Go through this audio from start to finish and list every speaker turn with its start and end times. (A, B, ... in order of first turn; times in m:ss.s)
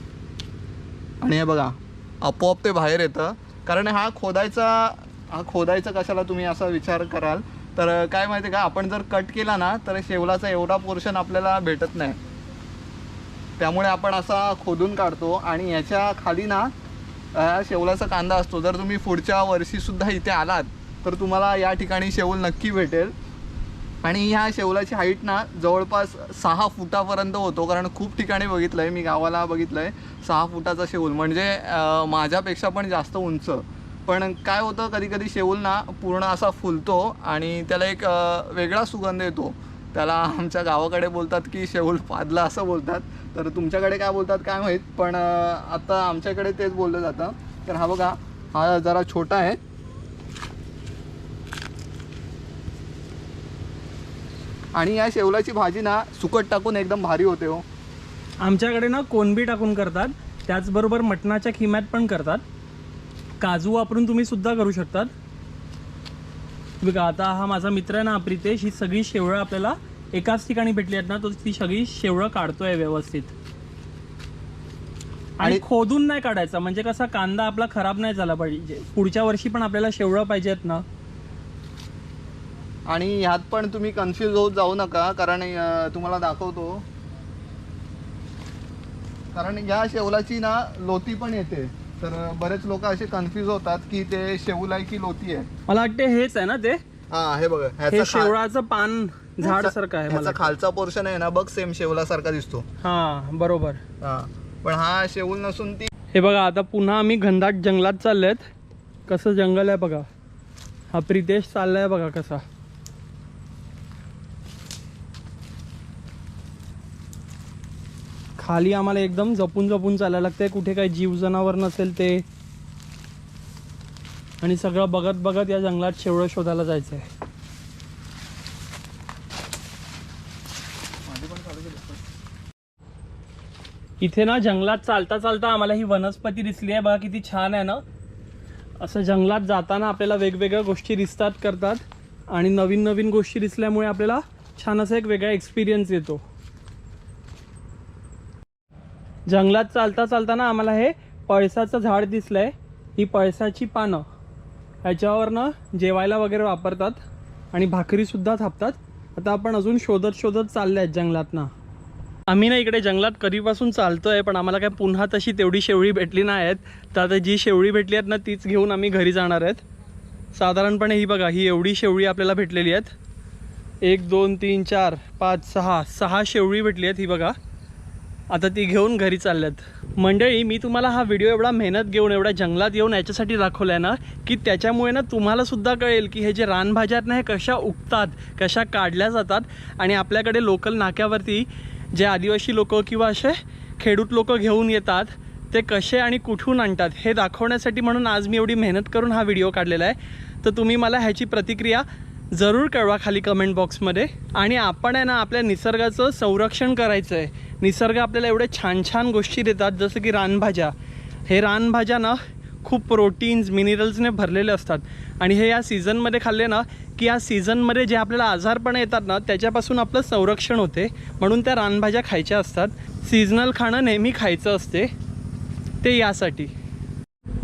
0:01.2-0:12.2 A
0:13.6-0:16.7 A
0:17.3-0:23.1 A
0:24.0-0:49.6 A
0:54.7-0:57.6 A
0:58.4-1:02.4 B
1:03.4-1:05.1 B
1:06.8-1:13.3 B
1:15.4-1:20.8 B
1:22.9-1:26.8 A
1:29.3-1:35.5 A
1:35.7-1:36.8 B
1:37.1-1:38.3 A
1:37.9-1:40.5 B
1:39.4-1:42.6 A
1:42.8-1:43.8 B
1:44.0-1:45.9 A
1:46.1-1:48.4 B
1:49.1-1:50.0 B
1:50.9-1:52.4 B
1:58.4-2:02.2 B
2:04.4-2:07.0 B
2:11.0-2:12.0 A
2:14.0-2:17.8 B
2:18.8-2:26.2 B
2:29.3-2:34.0 B
2:34.8-2:37.0 B
2:37.5-2:41.5 B
2:42.3-2:49.6 B
2:50.4-2:52.9 B
2:53.8-2:57.3 B
2:58.3-3:30.7 B
3:31.3-3:44.9 B
3:45.8-3:46.5 B